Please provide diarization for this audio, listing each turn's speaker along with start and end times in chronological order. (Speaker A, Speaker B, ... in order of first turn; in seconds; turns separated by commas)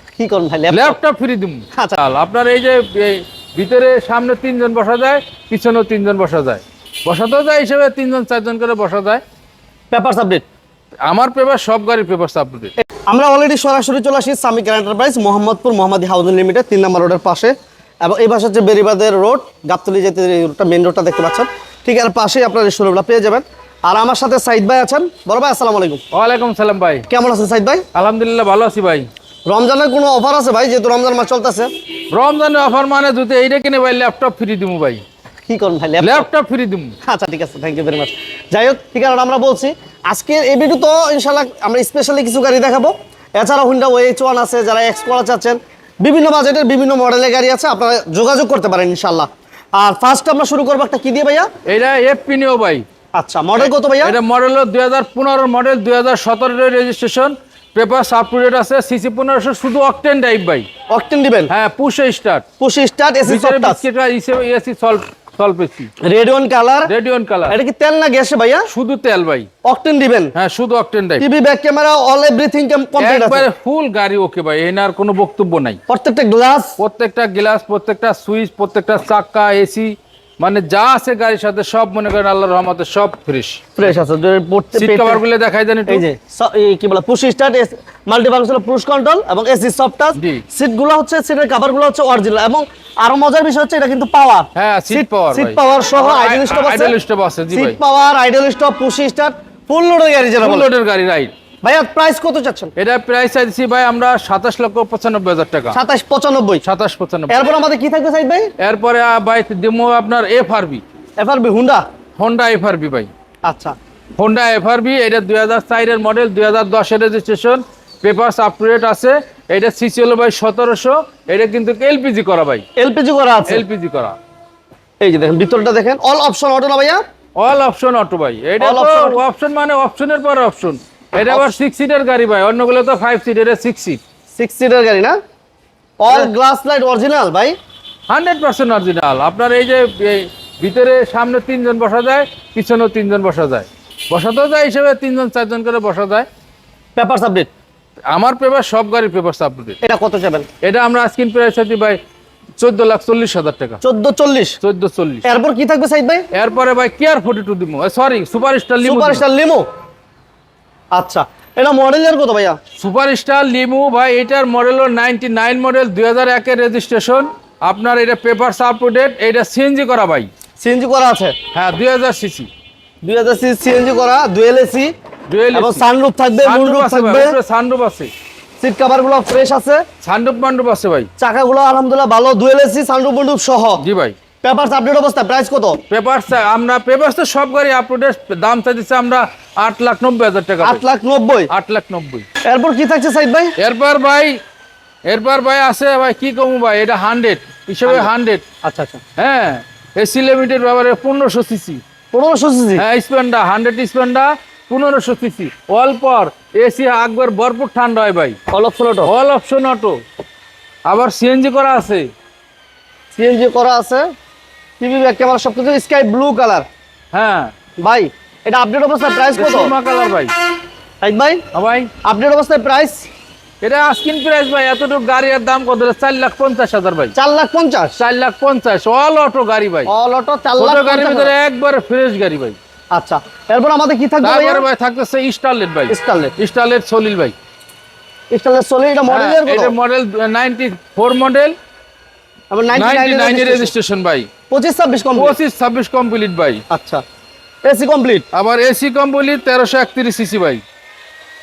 Speaker A: 0.2-1.0, Speaker B: 0.7-9.2, Speaker A: 1.7-2.0, Speaker A: 9.9-10.4, Speaker B: 11.1-12.7, Speaker A: 12.9-26.0, Speaker B: 26.1-27.1, Speaker A: 27.1-27.8, Speaker B: 27.9-29.1, Speaker A: 29.5-31.7, Speaker B: 32.1-35.0, Speaker A: 35.5-36.3, Speaker B: 36.0-36.9, Speaker A: 37.0-51.5, Speaker B: 51.7-52.8, Speaker A: 53.1-54.2, Speaker B: 53.6-60.7, Speaker A: 60.9-61.5, Speaker B: 61.5-62.4, Speaker A: 62.6-63.8, Speaker B: 63.2-65.9, Speaker A: 66.0-66.9, Speaker B: 66.8-67.6, Speaker A: 67.5-68.7, Speaker B: 68.7-69.5, Speaker A: 69.6-70.3, Speaker B: 70.3-71.2, Speaker A: 71.2-73.5, Speaker B: 73.0-75.8, Speaker A: 75.9-76.8, Speaker B: 76.8-83.7, Speaker A: 83.8-85.2, Speaker B: 84.8-86.0, Speaker A: 85.9-96.9, Speaker B: 90.1-90.4, Speaker B: 94.5-97.8, Speaker A: 97.5-100.7, Speaker B: 100.4-101.3, Speaker A: 101.6-102.7, Speaker B: 102.8-105.8, Speaker A: 105.7-106.6, Speaker B: 106.6-107.4, Speaker A: 107.3-108.5, Speaker B: 108.6-110.8, Speaker A: 111.2-111.8, Speaker B: 112.2-113.1, Speaker A: 113.4-113.7, Speaker B: 114.2-122.6, Speaker A: 122.8-123.6, Speaker B: 123.5-124.2, Speaker A: 125.0-127.0, Speaker B: 127.4-134.0, Speaker A: 128.6-129.2, Speaker A: 131.3-131.5, Speaker A: 134.3-135.2, Speaker A: 136.0-137.5, Speaker B: 138.1-146.3, Speaker A: 146.9-147.5, Speaker B: 148.1-149.8, Speaker A: 149.8-150.5, Speaker B: 150.6-152.0, Speaker B: 152.6-153.8, Speaker A: 153.8-154.6, Speaker B: 154.6-155.2, Speaker A: 155.2-156.3, Speaker B: 156.3-159.2, Speaker A: 158.8-159.7, Speaker A: 160.9-162.6, Speaker B: 162.8-170.3, Speaker A: 170.6-171.3, Speaker B: 171.5-172.5, Speaker A: 173.0-174.9, Speaker B: 175.3-175.8, Speaker A: 175.5-177.4, Speaker B: 176.4-178.1, Speaker A: 178.6-179.8, Speaker B: 180.0-181.1, Speaker A: 181.2-183.8, Speaker B: 183.8-184.2, Speaker A: 184.4-185.8, Speaker B: 185.9-190.8, Speaker A: 190.6-191.5, Speaker B: 191.5-192.2, Speaker A: 192.4-193.5, Speaker B: 193.6-194.4, Speaker B: 195.1-198.4, Speaker A: 197.8-198.1, Speaker A: 198.6-199.0, Speaker B: 199.2-201.8, Speaker A: 202.1-202.8, Speaker B: 202.8-208.4, Speaker A: 208.5-209.1, Speaker B: 209.0-210.0, Speaker B: 210.9-212.1, Speaker A: 213.1-214.0, Speaker A: 214.8-216.7, Speaker B: 217.1-217.5, Speaker A: 217.8-219.7, Speaker B: 219.3-220.3, Speaker A: 221.0-221.4, Speaker B: 221.5-221.9, Speaker A: 222.0-223.1, Speaker B: 223.6-227.1, Speaker A: 227.1-228.0, Speaker B: 228.0-229.9, Speaker A: 229.9-231.3, Speaker B: 230.6-232.6, Speaker A: 232.9-234.7, Speaker B: 234.2-237.3, Speaker A: 235.9-236.3, Speaker A: 238.3-239.7, Speaker B: 239.1-241.5, Speaker A: 242.5-243.7, Speaker B: 242.7-244.3, Speaker A: 244.5-245.3, Speaker B: 245.2-246.6, Speaker A: 246.7-247.0, Speaker A: 247.6-248.2, Speaker B: 248.3-250.6